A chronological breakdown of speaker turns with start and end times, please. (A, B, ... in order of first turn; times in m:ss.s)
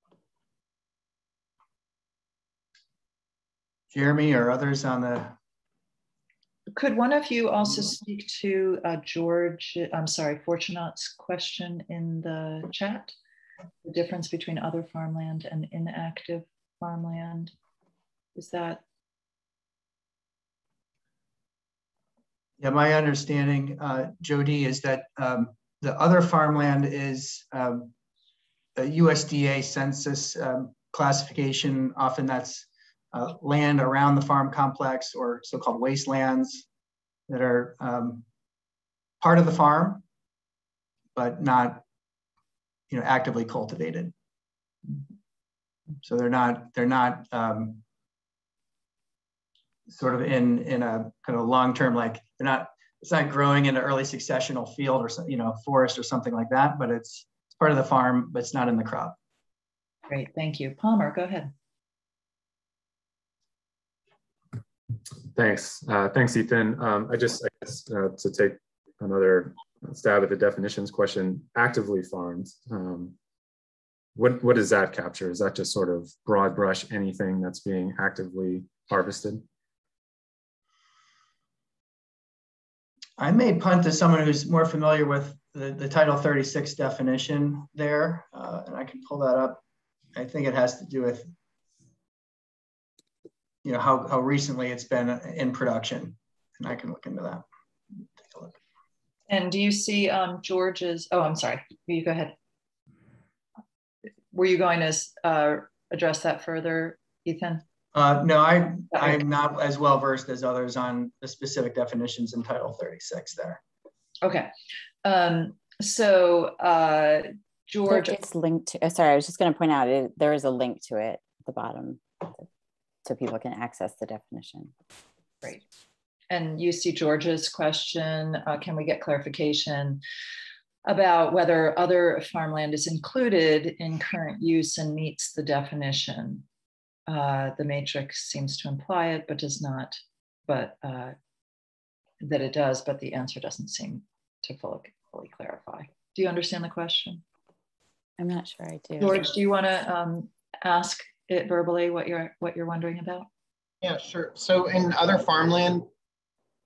0:03.9-0:05.4 A
0:06.7-0:13.1 B
0:13.8-0:17.5 B
0:18.4-0:18.8 B
0:22.6-0:27.9 A
0:28.8-0:36.6 A
0:37.3-0:38.2 A
0:39.2-0:40.0 A
0:41.1-0:41.8 A
0:42.9-0:44.1 A
0:46.0-0:47.8 A
0:49.9-0:59.2 A
1:00.1-1:01.5 B
1:05.3-1:13.2 C
1:14.2-1:19.4 C
1:23.2-1:29.6 A
1:30.1-1:31.3 A
1:33.6-1:37.4 A
1:39.3-1:42.3 B
1:44.3-1:47.6 B
1:47.9-1:53.6 A
1:48.9-1:49.2 B
1:54.2-1:54.5 B
1:55.0-1:58.2 B
1:57.9-2:02.4 D
2:03.0-2:04.7 D
2:06.3-2:10.0 B
2:10.8-2:16.4 B
2:17.1-2:21.1 B
2:22.2-2:27.2 B
2:28.2-2:29.2 D
2:29.0-2:33.3 B
2:33.8-2:35.9 E